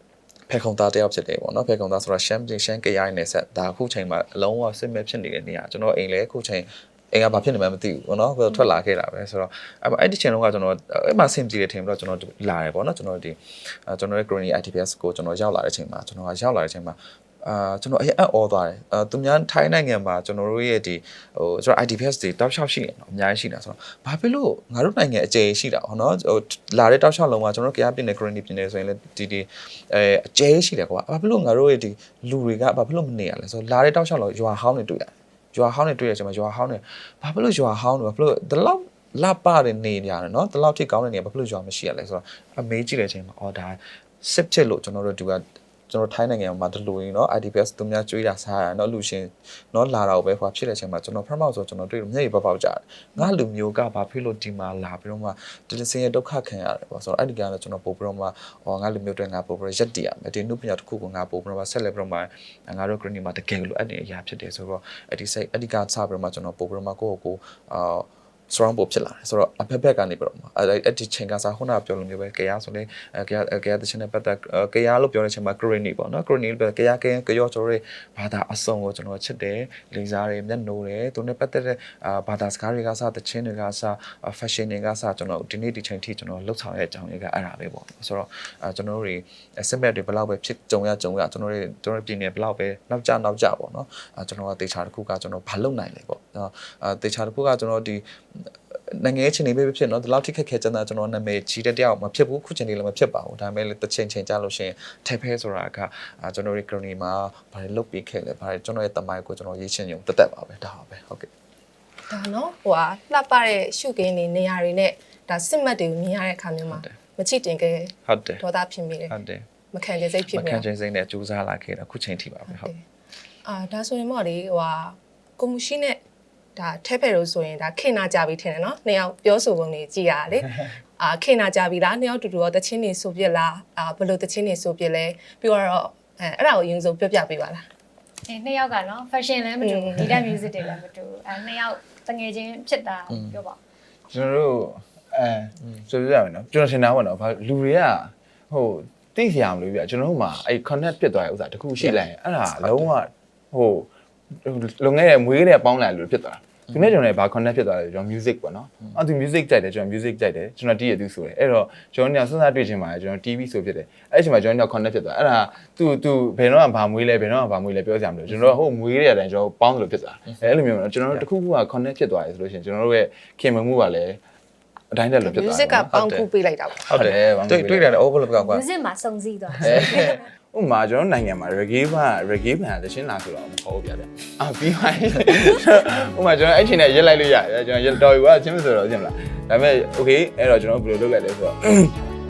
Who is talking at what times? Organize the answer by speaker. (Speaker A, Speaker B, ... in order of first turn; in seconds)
Speaker A: 0.5-111.3, 118.1-118.4, 119.1-119.5, 120.3-122.7, 143.1-143.4, 152.5-152.9, 175.9-176.3, 176.9-178.7, 179.6-180.2
Speaker B: 112.1-119.1, 119.7-120.7, 122.5-122.8, 123.5-126.0, 126.6-137.6, 139.6-140.2, 175.2-176.9
Speaker C: 138.3-143.6, 178.3-180.2
Speaker D: 144.1-153.9, 154.4-174.2, 174.9-175.9, 176.9-177.9, 179.6-192.0